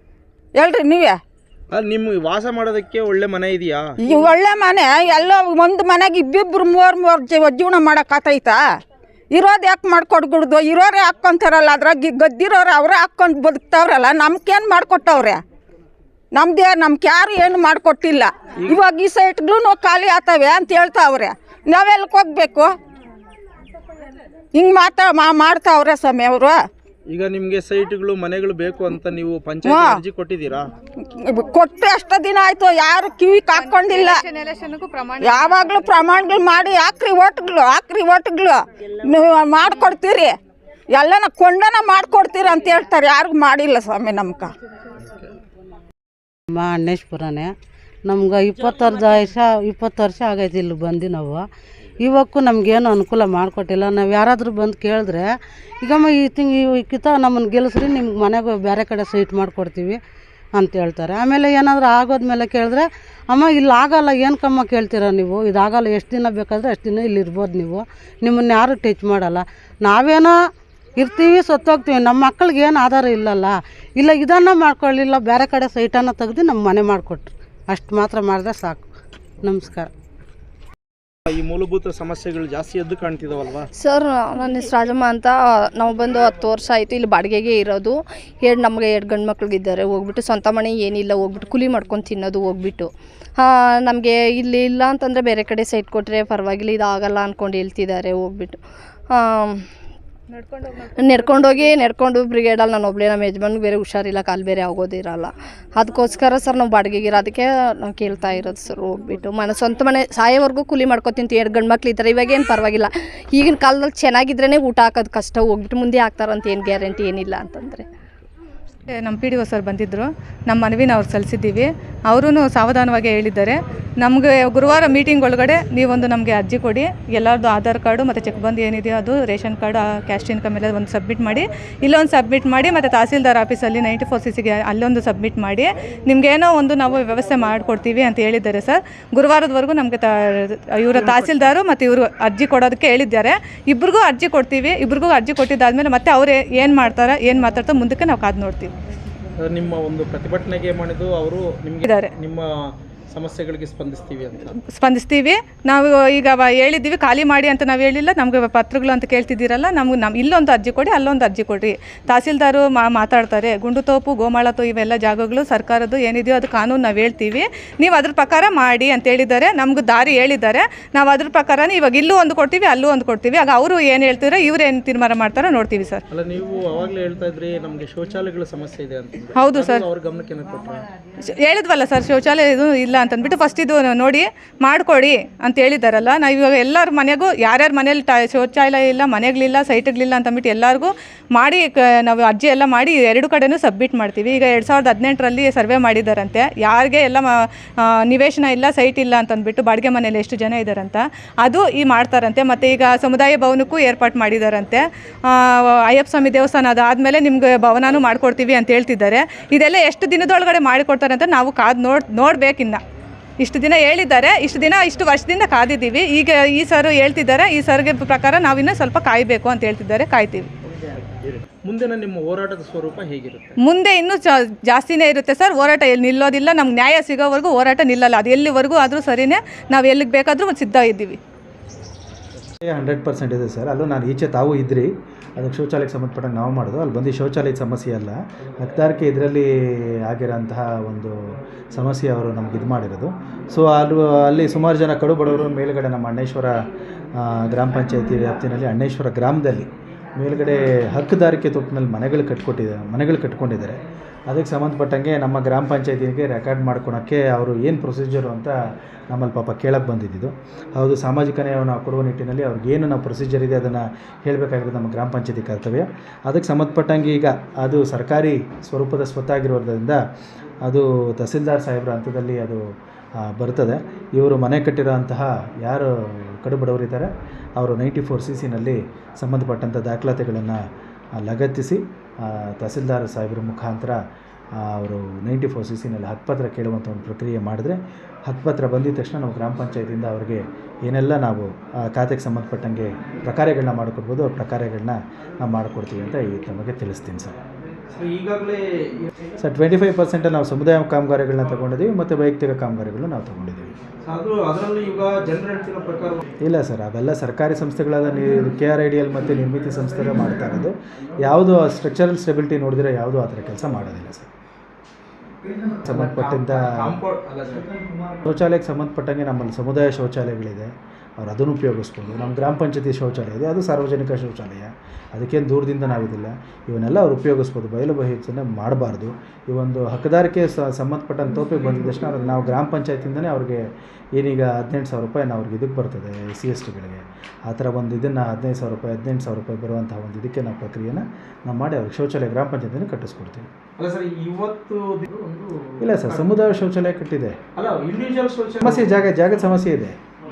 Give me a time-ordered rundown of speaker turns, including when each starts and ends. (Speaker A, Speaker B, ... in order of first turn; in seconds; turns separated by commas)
Speaker A: 0.6-1.2, Speaker B: 1.7-3.8, Speaker A: 4.0-8.6, Speaker A: 9.3-15.4, Speaker A: 16.3-22.7, Speaker A: 24.6-26.6, Speaker B: 27.1-30.7, Speaker A: 29.6-30.0, Speaker A: 31.2-34.2, Speaker C: 33.5-35.9, Speaker A: 35.2-40.3, Speaker A: 40.9-44.5, Speaker D: 46.5-47.5, Speaker D: 48.1-51.5, Speaker D: 52.0-60.0, Speaker D: 60.5-78.9, Speaker D: 79.4-79.9, Speaker B: 81.3-83.7, Speaker E: 83.8-98.6, Speaker E: 99.1-99.6, Speaker E: 101.0-117.9, Speaker C: 118.9-148.7, Speaker B: 141.1-141.5, Speaker B: 149.4-152.4, Speaker C: 151.9-152.1, Speaker B: 153.1-154.6, Speaker C: 154.7-176.0, Speaker B: 176.1-180.9, Speaker C: 179.4-179.8, Speaker C: 181.2-212.8, Speaker C: 213.4-220.5, Speaker B: 221.2-223.6, Speaker C: 223.6-231.2, Speaker F: 232.6-258.6, Speaker F: 259.1-270.0, Speaker F: 270.6-272.6, Speaker F: 273.2-280.6, Speaker F: 281.2-284.0, Speaker F: 284.6-297.4, Speaker B: 297.9-299.1, Speaker F: 299.4-303.7, Speaker B: 304.0-306.2, Speaker F: 306.4-314.3, Speaker B: 315.7-317.7, Speaker F: 315.9-317.0, Speaker F: 318.2-343.5, Speaker B: 343.8-346.3, Speaker F: 345.8-347.4, Speaker B: 347.6-349.0, Speaker F: 348.6-350.0